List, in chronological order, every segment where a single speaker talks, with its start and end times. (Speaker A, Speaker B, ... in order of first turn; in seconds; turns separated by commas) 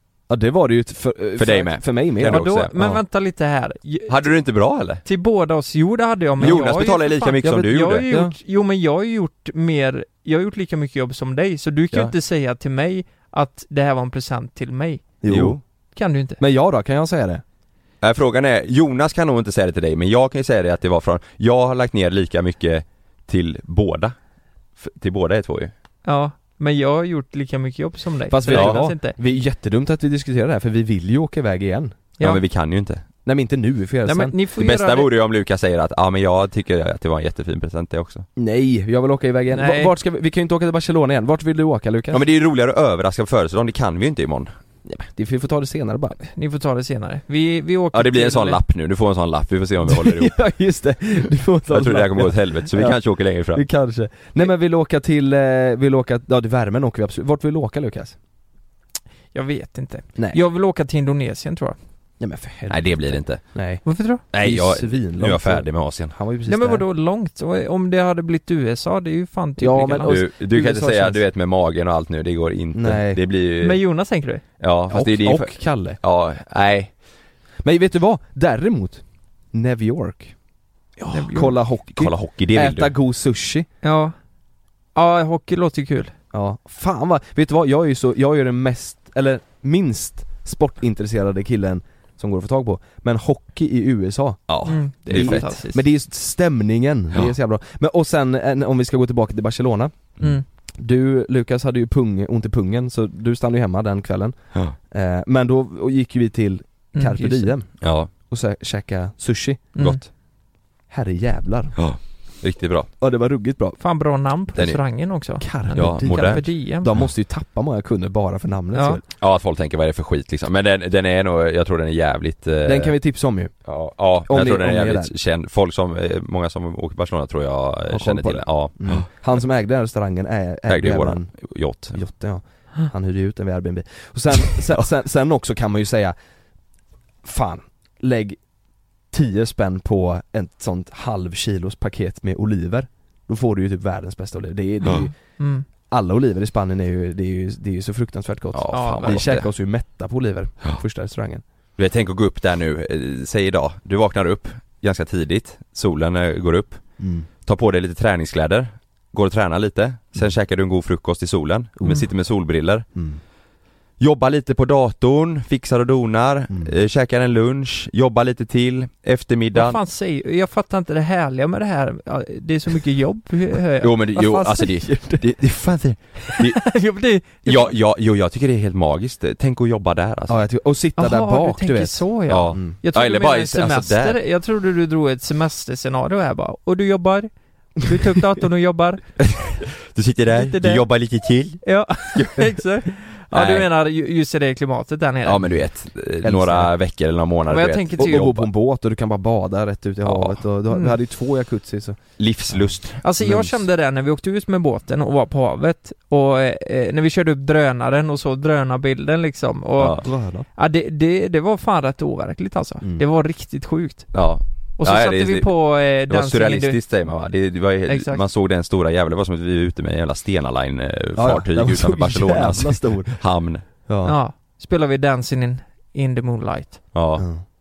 Speaker A: 0.3-3.0, Speaker B: 1.4-2.7, Speaker C: 2.2-4.3, Speaker B: 4.1-5.0, Speaker C: 5.0-15.1, Speaker B: 6.4-8.1, Speaker A: 8.1-8.3, Speaker A: 15.2-15.6, Speaker B: 15.3-15.6, Speaker C: 15.9-16.4, Speaker A: 16.4-17.4, Speaker B: 18.0-24.1, Speaker B: 24.8-25.7, Speaker C: 26.0-29.1, Speaker A: 28.3-32.0, Speaker B: 28.5-28.8, Speaker B: 32.2-33.0, Speaker A: 33.2-34.3, Speaker C: 34.0-35.1, Speaker B: 34.6-38.2, Speaker A: 38.4-42.2, Speaker C: 39.5-39.9, Speaker B: 42.1-44.5, Speaker A: 44.8-46.2, Speaker C: 46.2-48.6, Speaker B: 47.9-50.4, Speaker A: 49.9-53.0, Speaker B: 51.7-53.6, Speaker A: 53.5-58.1, Speaker C: 59.3-61.8, Speaker A: 62.2-66.8, Speaker B: 62.7-63.5, Speaker C: 63.8-64.2, Speaker B: 64.3-66.1, Speaker C: 66.5-70.1, Speaker A: 69.6-71.2, Speaker B: 70.0-73.8, Speaker A: 72.7-73.2, Speaker C: 73.6-74.4, Speaker B: 74.6-76.9, Speaker A: 74.9-76.0, Speaker A: 77.6-80.3, Speaker C: 81.1-81.5, Speaker A: 81.2-83.7, Speaker B: 82.0-82.9, Speaker C: 83.8-84.1, Speaker C: 84.9-86.1, Speaker A: 86.3-94.5, Speaker B: 94.5-95.5, Speaker C: 94.7-95.8, Speaker A: 95.0-100.1, Speaker A: 100.8-109.8, Speaker C: 106.9-107.5, Speaker B: 107.8-108.1, Speaker C: 109.7-110.0, Speaker A: 110.9-111.7, Speaker B: 111.8-112.9, Speaker A: 113.0-113.8, Speaker C: 113.8-116.9, Speaker A: 115.4-119.0, Speaker B: 115.8-116.4, Speaker C: 118.7-119.0, Speaker B: 119.2-122.9, Speaker A: 122.6-123.6, Speaker B: 123.7-129.1, Speaker A: 124.2-125.1, Speaker A: 127.9-131.3, Speaker B: 130.7-132.0, Speaker A: 131.9-136.1, Speaker A: 137.2-138.4, Speaker A: 139.1-145.1, Speaker C: 144.9-145.7, Speaker A: 145.9-151.4, Speaker B: 148.5-149.5, Speaker C: 148.7-149.4, Speaker B: 151.8-156.8, Speaker A: 157.0-157.3, Speaker B: 157.4-162.8, Speaker A: 161.8-162.1, Speaker A: 162.9-163.2, Speaker B: 164.0-169.8, Speaker C: 169.5-174.7, Speaker B: 173.8-180.4, Speaker A: 174.7-175.2, Speaker C: 176.3-177.7, Speaker A: 180.3-182.8, Speaker C: 181.0-189.0, Speaker B: 182.3-184.2, Speaker B: 189.2-192.6, Speaker C: 190.3-190.8, Speaker C: 191.6-195.4, Speaker B: 193.3-193.7, Speaker B: 195.2-198.5, Speaker A: 196.2-196.7, Speaker C: 197.5-198.3, Speaker A: 198.0-202.8, Speaker B: 200.1-200.4, Speaker B: 202.2-203.5, Speaker C: 203.0-210.0, Speaker B: 209.8-210.1, Speaker A: 210.0-210.4, Speaker C: 210.6-214.1, Speaker B: 214.1-223.6, Speaker C: 214.8-216.8, Speaker C: 217.9-218.2, Speaker A: 221.1-223.2, Speaker A: 223.8-224.2, Speaker C: 224.0-226.8, Speaker B: 226.9-227.2, Speaker A: 227.2-227.4